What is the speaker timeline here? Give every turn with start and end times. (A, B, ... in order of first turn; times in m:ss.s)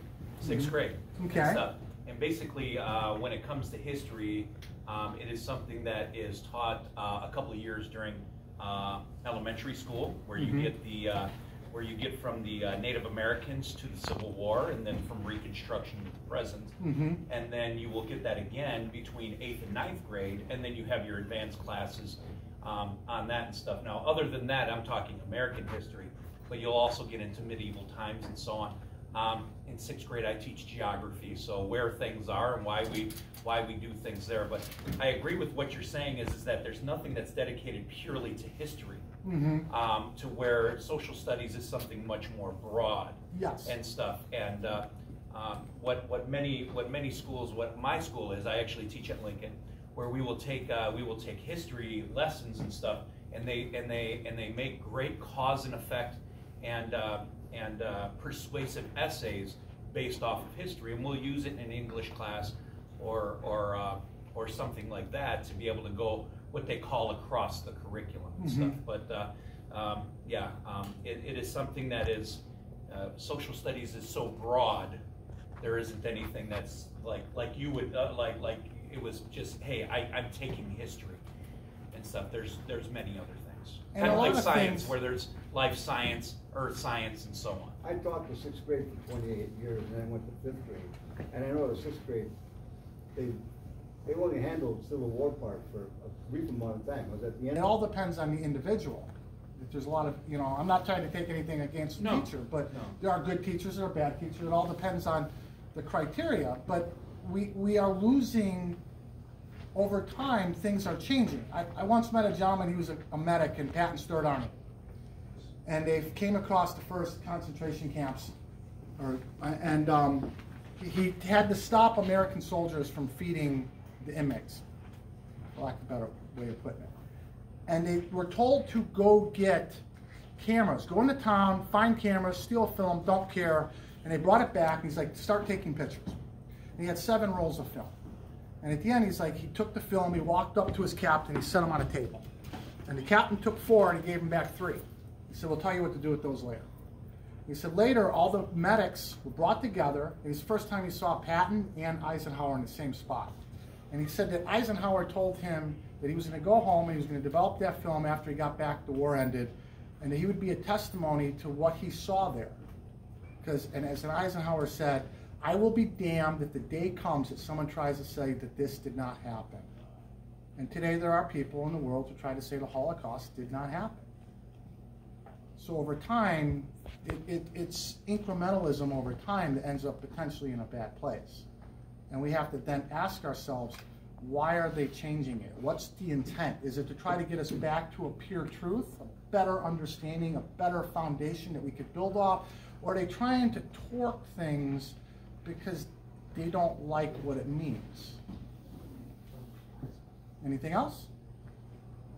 0:00.4-0:16.7 A
0:00.4-0:01.6 B
0:10.4-0:10.7 B
0:16.8-0:17.2 B
0:17.3-0:39.0 A
0:39.2-0:39.7 B
0:39.7-1:15.0 A
0:43.3-0:43.8 B
1:08.4-1:08.8 B
1:15.6-1:21.2 A
1:21.9-1:27.8 A
1:23.9-1:24.9 B
1:27.8-1:32.3 C
1:33.1-1:33.4 C
1:34.0-1:37.6 C
1:37.5-1:48.8 B
1:42.0-1:43.0 A
1:49.7-1:54.5 B
1:55.6-1:58.3 B
1:59.0-2:04.6 B
2:05.5-2:06.9 B
2:07.7-2:09.8 B
2:10.4-2:16.2 B
2:16.8-2:17.9 B
2:18.6-2:22.2 B
2:22.8-2:26.7 B
2:27.4-2:33.4 B
2:33.9-2:42.6 B
2:43.4-2:49.7 B
2:50.6-2:54.1 B
2:55.6-3:01.4 B
3:02.1-3:18.2 B
3:20.4-3:21.1 B